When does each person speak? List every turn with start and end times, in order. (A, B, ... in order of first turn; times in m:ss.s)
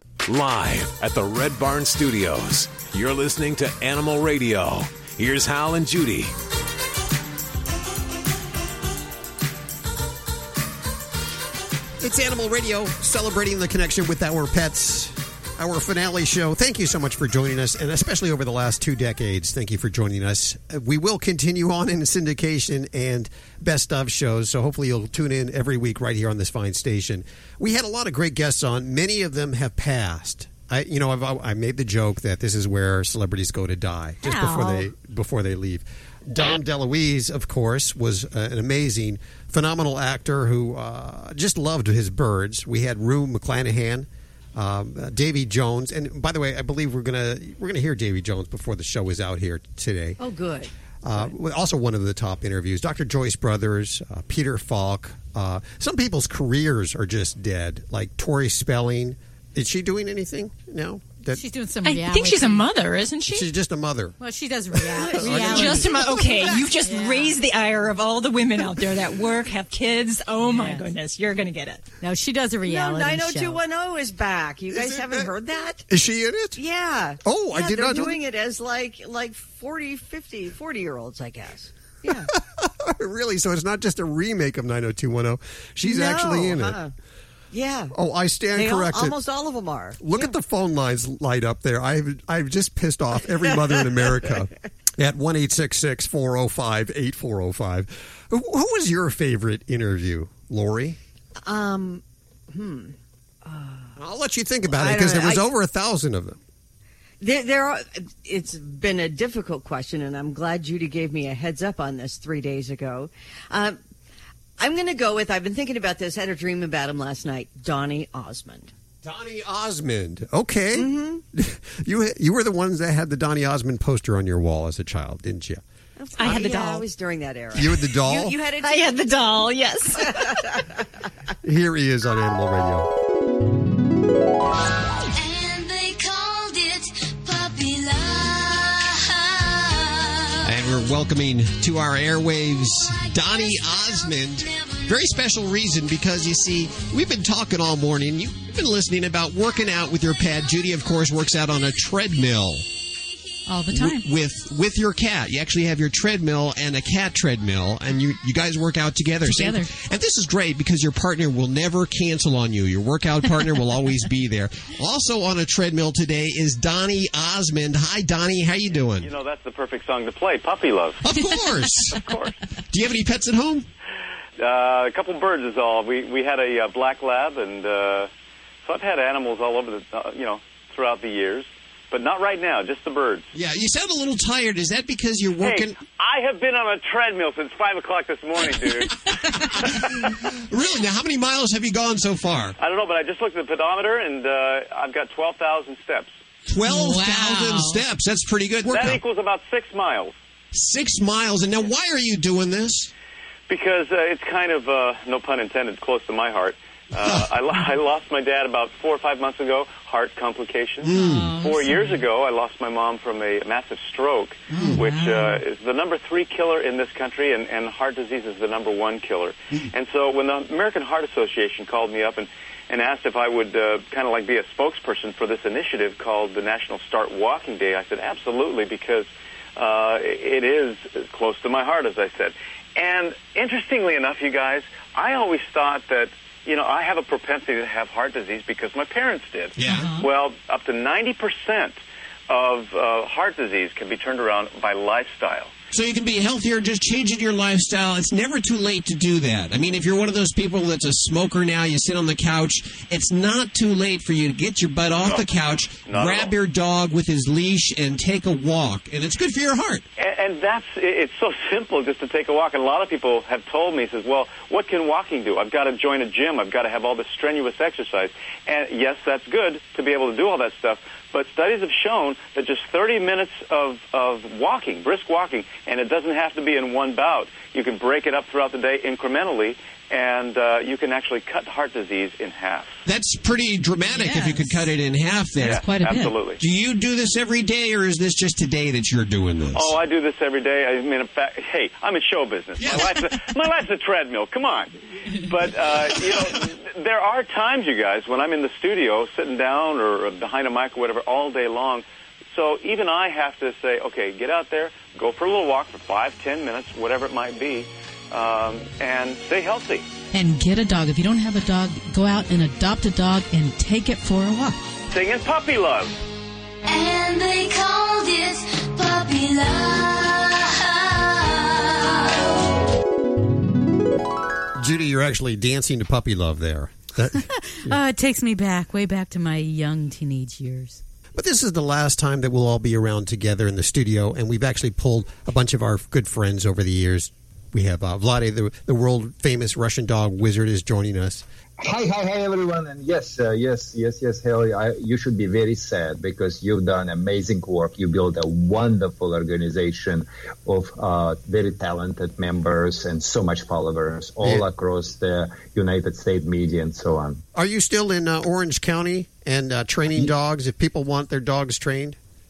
0:00.3-0:06.3 A
0:12.0-0:50.2 B
0:34.4-0:34.6 C
0:50.2-0:51.3 D
0:51.0-1:01.4 B
1:01.3-1:02.6 E
1:01.8-1:03.5 C
1:03.3-1:04.2 B
1:04.2-1:07.4 E
1:04.8-1:05.9 B
1:05.2-1:11.8 C
1:10.4-1:10.8 E
1:12.0-1:13.6 E
1:12.6-1:15.8 D
1:14.7-1:15.3 B
1:15.9-1:16.6 B
1:16.6-1:22.3 D
1:17.2-1:18.2 B
1:22.6-1:26.8 B
1:25.8-1:26.9 D
1:27.5-1:28.0 D
1:27.9-1:29.2 B
1:28.5-1:30.3 D
1:30.0-1:41.0 B
1:41.4-1:44.0 D
1:44.0-1:46.4 B
1:44.7-1:45.4 D
1:47.2-1:53.8 D
1:54.6-1:58.7 D
1:59.0-2:05.6 B
2:00.7-2:01.2 D
2:06.0-2:08.9 D
2:06.2-2:06.8 C
2:07.5-2:08.4 B
2:08.6-2:10.2 C
2:10.0-2:10.8 D
2:11.4-2:12.9 B
2:15.1-2:20.5 F
2:20.4-2:32.6 G
2:33.5-2:34.0 E
2:33.7-2:49.1 G
2:39.2-2:39.7 E
2:48.7-2:51.0 H
2:51.0-2:52.0 G
2:51.7-2:52.4 H
2:52.7-2:53.6 G
2:54.4-2:58.1 H
2:58.6-3:03.3 H
3:03.3-3:05.6 G
3:05.3-3:05.7 B
3:05.4-3:08.9 H
3:10.5-3:12.5 G
3:12.6-3:16.1 H
3:16.5-3:19.0 G
3:16.6-3:17.8 E
3:18.6-3:20.1 H
3:20.5-3:22.9 G
3:23.5-4:01.8 H
3:30.8-3:31.4 G
3:30.9-3:32.0 E
3:34.5-3:35.4 E
3:34.6-3:34.8 G
3:59.6-4:00.0 G
3:59.7-4:00.0 E
4:02.3-4:05.5 H
4:05.7-4:19.8 G
4:15.8-4:16.3 H
4:20.0-4:42.8 H
4:42.8-4:49.7 G
4:44.0-4:44.6 E
4:45.4-4:46.4 H
4:45.4-4:46.1 E
4:49.5-5:09.9 H
4:52.6-4:52.9 G
5:10.1-5:14.6 E
5:14.9-5:16.0 H
5:16.6-5:22.3 F
5:24.6-5:27.8 B
5:27.4-5:30.8 E
5:31.1-5:41.2 B
5:41.6-5:57.2 I
5:57.3-6:02.0 B